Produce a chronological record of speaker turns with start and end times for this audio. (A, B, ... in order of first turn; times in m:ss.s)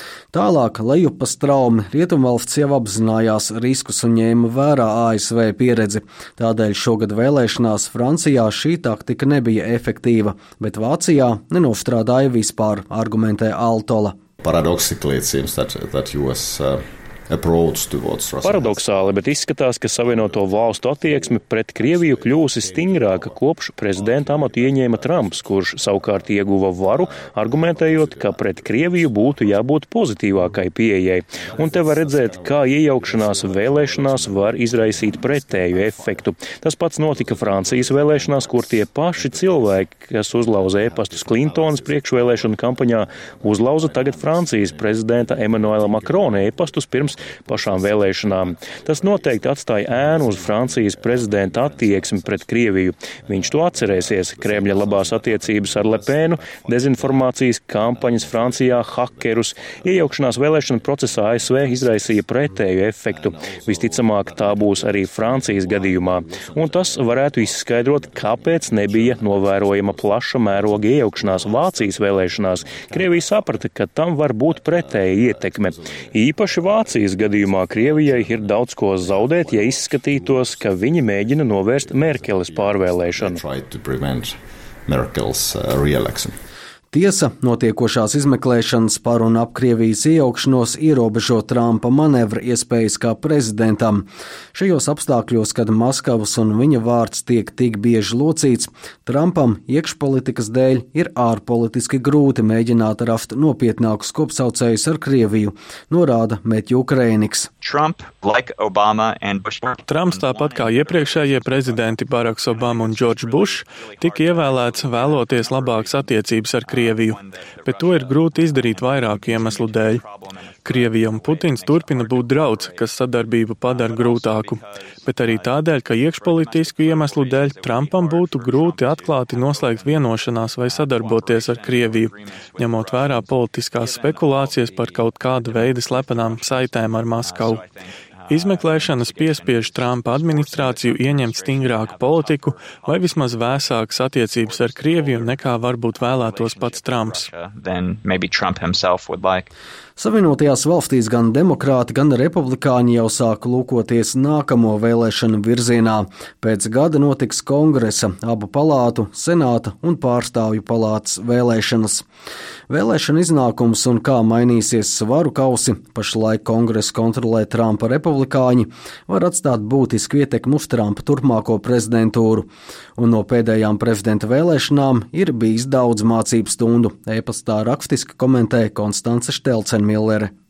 0:00.3-0:14.2 A
0:14.4-0:19.3 B
0:18.4-1:23.4 C
0:19.9-1:26.4 B
1:26.9-1:47.5 A
1:47.6-2:03.0 D
1:49.8-2:00.0 E
2:00.6-2:17.6 E
2:03.5-2:29.5 D
2:18.3-2:27.3 E
2:30.0-2:42.0 A
2:42.7-3:00.3 A